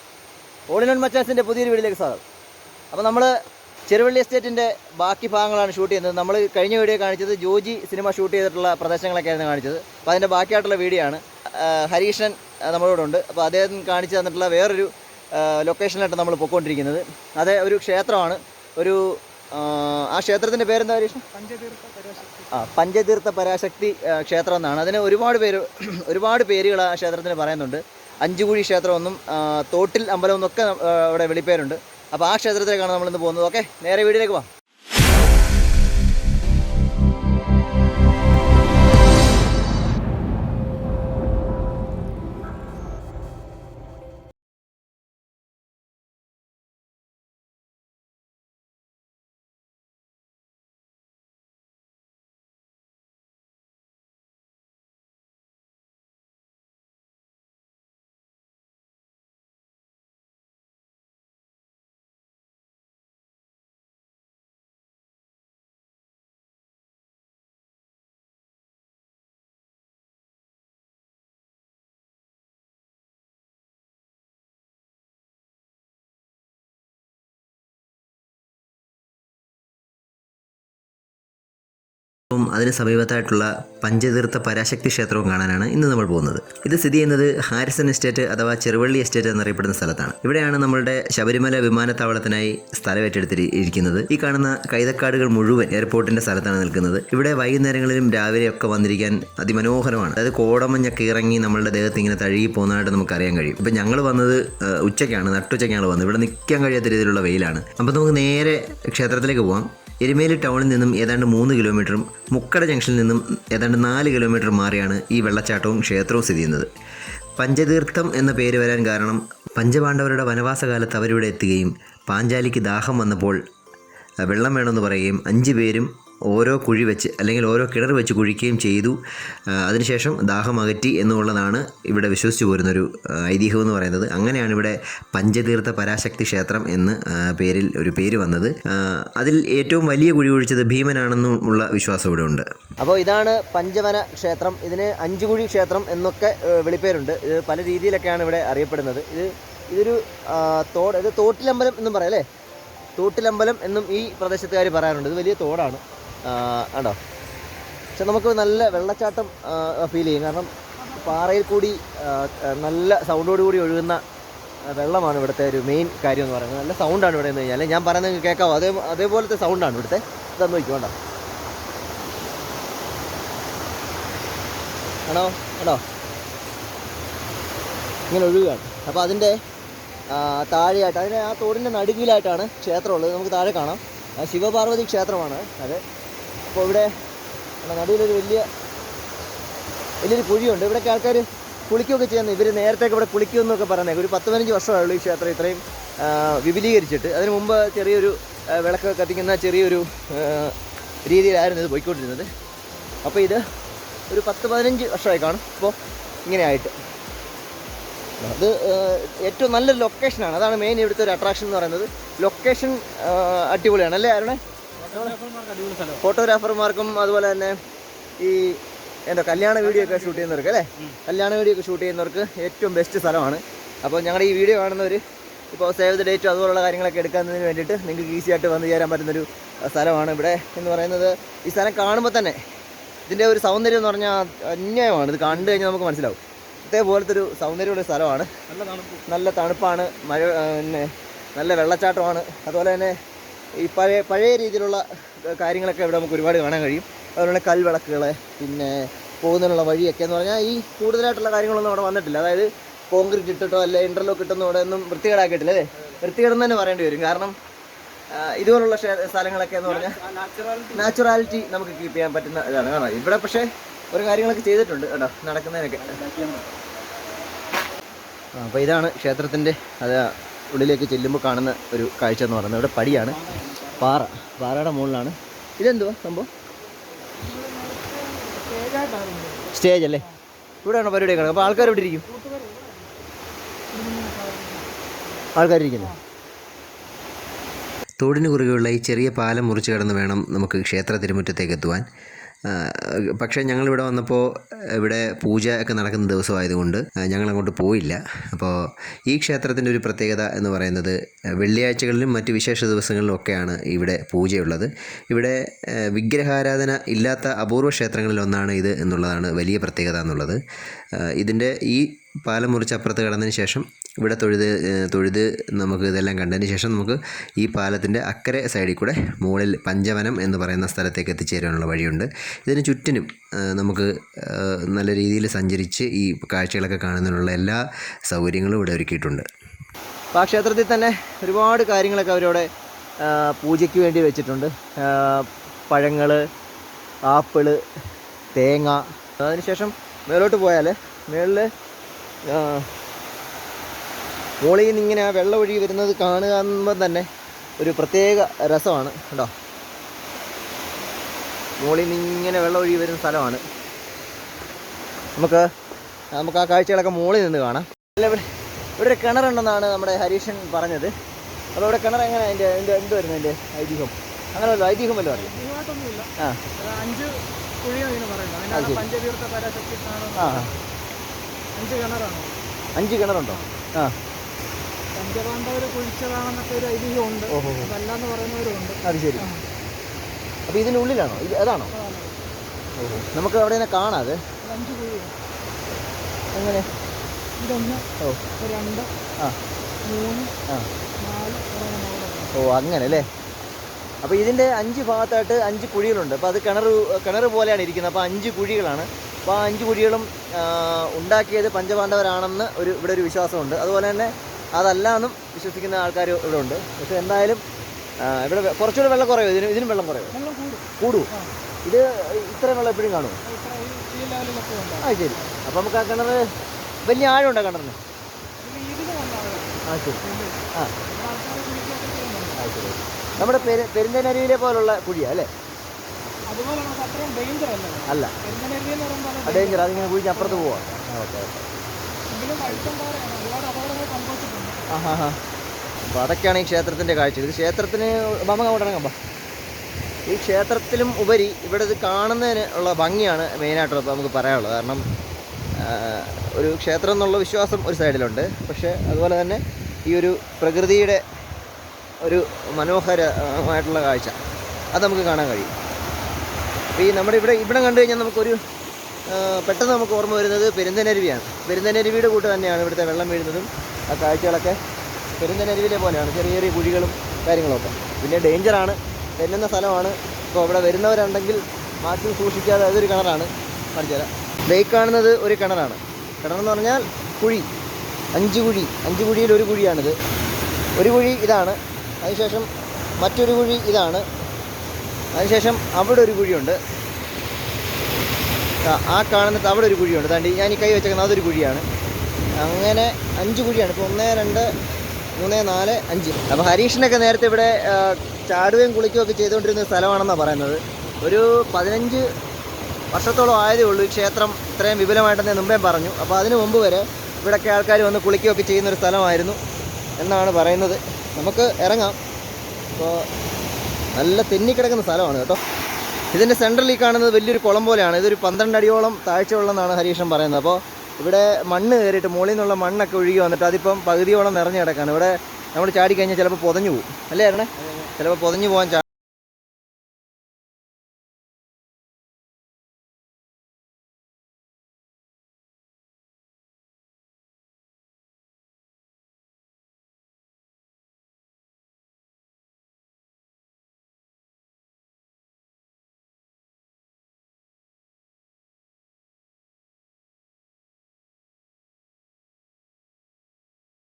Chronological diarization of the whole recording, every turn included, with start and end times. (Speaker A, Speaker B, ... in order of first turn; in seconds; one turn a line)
Speaker A: 0.7-2.2
Speaker A: 2.9-3.3
Speaker A: 3.9-19.0
Speaker A: 19.6-21.2
Speaker B: 21.3-22.6
Speaker A: 22.5-34.5
Speaker C: 82.3-116.7
Speaker C: 117.4-123.4
Speaker C: 124.3-129.0
Speaker C: 129.6-142.5
Speaker A: 142.8-152.2
Speaker A: 153.0-157.0
Speaker A: 158.0-164.0
Speaker B: 160.8-161.2
Speaker A: 164.7-170.9
Speaker A: 175.1-175.8
Speaker A: 178.1-179.3
Speaker A: 180.1-185.8
Speaker A: 186.5-186.9
Speaker A: 187.6-188.4
Speaker A: 190.0-200.5
Speaker A: 201.1-202.3
Speaker A: 203.0-203.4
Speaker A: 204.1-205.8
Speaker A: 206.3-206.7
Speaker A: 208.2-215.2
Speaker B: 214.8-216.0
Speaker A: 216.0-217.5
Speaker A: 218.2-218.6
Speaker A: 219.1-225.0
Speaker B: 219.7-220.3
Speaker A: 225.5-232.4
Speaker A: 233.1-238.3
Speaker B: 238.5-239.0
Speaker A: 239.1-242.9
Speaker A: 243.6-244.8
Speaker A: 245.3-257.4
Speaker A: 258.2-260.0
Speaker B: 260.0-260.7
Speaker A: 260.7-266.0
Speaker B: 266.0-266.4
Speaker A: 268.4-273.2
Speaker A: 273.8-276.3
Speaker B: 277.1-279.5
Speaker A: 279.5-280.1
Speaker A: 280.6-282.0
Speaker B: 281.1-283.0
Speaker B: 283.7-284.7
Speaker A: 285.4-285.9
Speaker C: 288.0-291.9
Speaker C: 292.5-294.2
Speaker C: 294.8-298.6
Speaker C: 299.1-310.4
Speaker C: 311.0-329.3
Speaker A: 330.1-332.5
Speaker A: 333.0-336.2
Speaker A: 337.1-337.6
Speaker A: 338.4-341.5
Speaker A: 342.3-342.7
Speaker A: 344.4-347.1
Speaker A: 347.6-349.3
Speaker A: 351.6-353.4
Speaker A: 355.2-355.4
Speaker A: 356.1-358.2
Speaker A: 358.8-360.9
Speaker A: 361.6-365.3
Speaker B: 364.5-370.5
Speaker A: 368.5-368.9
Speaker A: 370.2-370.5
Speaker B: 371.6-372.3
Speaker A: 372.8-373.9
Speaker B: 374.9-379.4
Speaker A: 377.3-377.7
Speaker A: 378.8-379.2
Speaker A: 380.5-381.7
Speaker B: 381.7-382.2
Speaker A: 382.8-384.2
Speaker B: 384.4-385.1
Speaker A: 386.4-386.6
Speaker B: 387.4-387.9
Speaker B: 388.4-388.9
Speaker B: 389.9-390.3
Speaker B: 391.0-393.1
Speaker A: 392.4-393.1
Speaker A: 394.0-407.4
Speaker A: 408.0-410.1
Speaker B: 410.1-411.3
Speaker A: 410.8-411.1
Speaker A: 411.7-413.2
Speaker B: 413.2-415.4
Speaker A: 414.8-416.2
Speaker A: 416.9-417.8
Speaker B: 418.4-422.4
Speaker A: 419.7-420.0
Speaker A: 422.4-425.3
Speaker B: 423.1-423.7
Speaker B: 426.3-430.8
Speaker A: 427.9-428.1
Speaker A: 429.2-431.4
Speaker B: 432.1-434.6
Speaker A: 434.7-435.2
Speaker A: 435.9-438.9
Speaker A: 440.1-444.8
Speaker A: 445.6-451.0
Speaker A: 452.0-454.1
Speaker A: 454.7-455.5
Speaker A: 456.8-458.4
Speaker A: 459.1-464.6
Speaker A: 465.2-477.5
Speaker A: 478.1-479.9
Speaker A: 480.8-482.5
Speaker A: 483.0-484.0
Speaker A: 485.2-486.6
Speaker A: 488.7-491.6
Speaker A: 492.4-494.5
Speaker A: 495.2-502.0
Speaker A: 502.9-509.4
Speaker A: 510.0-512.0
Speaker A: 514.0-515.4
Speaker A: 516.1-528.8